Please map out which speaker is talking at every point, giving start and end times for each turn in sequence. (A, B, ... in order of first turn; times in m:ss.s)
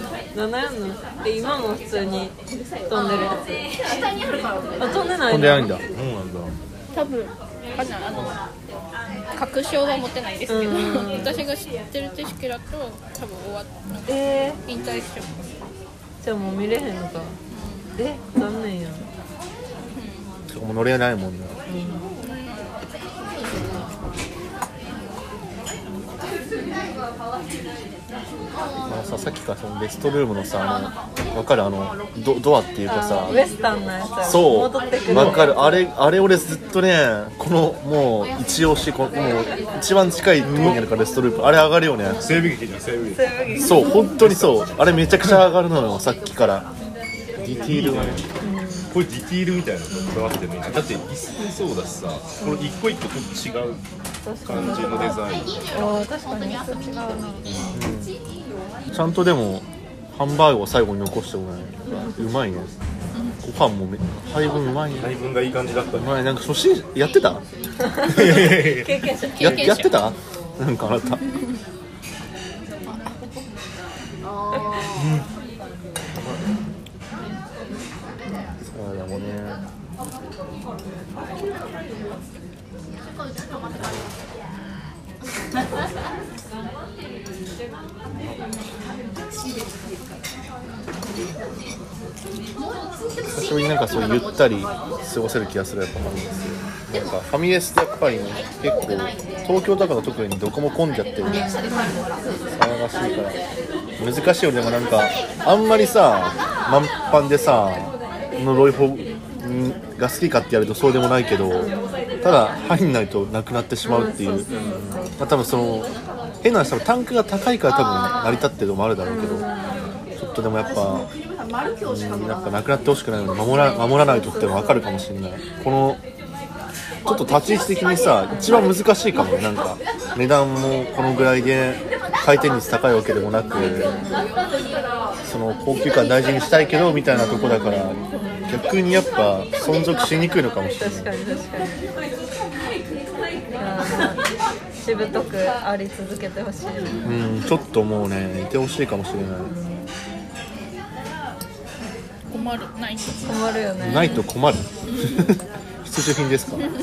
0:00.3-0:02.4 A
0:02.9-0:03.8 A
0:04.8-0:05.8 A
0:05.3-0:05.8 B
0:05.9-0:06.5 C
0:06.9-0:08.4 D
0:09.3-0:15.5 D
0:10.5-0:11.3 A
0:14.1-0:14.6 A
0:16.2-0:17.4 A
0:17.5-0:17.9 D
0:18.0-0:19.0 A
0:19.9-0:20.2 D
0:20.5-0:21.6 B
0:21.7-0:22.1 A
0:22.2-0:22.7 D
0:28.8-0:33.4 B
0:32.9-0:35.9 A
0:34.2-0:42.2 B
0:40.4-0:40.8 C
0:42.2-0:45.5 C
0:43.1-0:44.1 A
0:43.6-0:46.7 B
0:47.4-0:48.2 B
0:47.4-0:48.4 C
0:48.4-0:48.9 A
0:48.9-0:53.8 C
0:49.9-0:50.3 A
0:52.4-0:52.8 A
0:54.2-0:57.7 A
0:54.4-0:55.6 C
0:54.6-0:57.3 D
0:57.5-0:57.7 C
0:57.7-0:58.1 B
0:58.9-1:02.7 B
1:03.4-1:05.1 B
1:05.0-1:06.2 C
1:05.9-1:07.4 B
1:07.9-1:09.7 A
1:08.1-1:09.7 C
1:09.3-1:10.1 D
1:09.4-1:11.2 B
1:12.8-1:13.3 D
1:14.9-1:15.2 C
1:16.1-1:16.5 C
1:18.6-1:19.6 B
1:28.1-1:28.4 C
1:33.2-1:41.5 B
1:41.2-1:42.0 A
1:42.5-1:43.4 B
1:44.0-1:54.5 B
1:51.5-1:52.2 A
1:53.8-1:55.1 A
1:54.5-1:54.9 C
1:55.1-1:59.4 B
1:59.0-2:00.0 A
2:00.2-2:01.1 B
2:01.8-2:06.0 B
2:03.5-2:05.0 A
2:07.0-2:14.0 B
2:13.5-2:14.3 A
2:15.2-2:21.1 B
2:17.1-2:18.6 A
2:20.8-2:21.8 A
2:23.5-2:27.2 A
2:27.0-2:29.5 B
2:29.4-2:29.9 A
2:32.3-2:33.5 D
2:33.2-2:34.2 A
2:33.8-2:36.7 B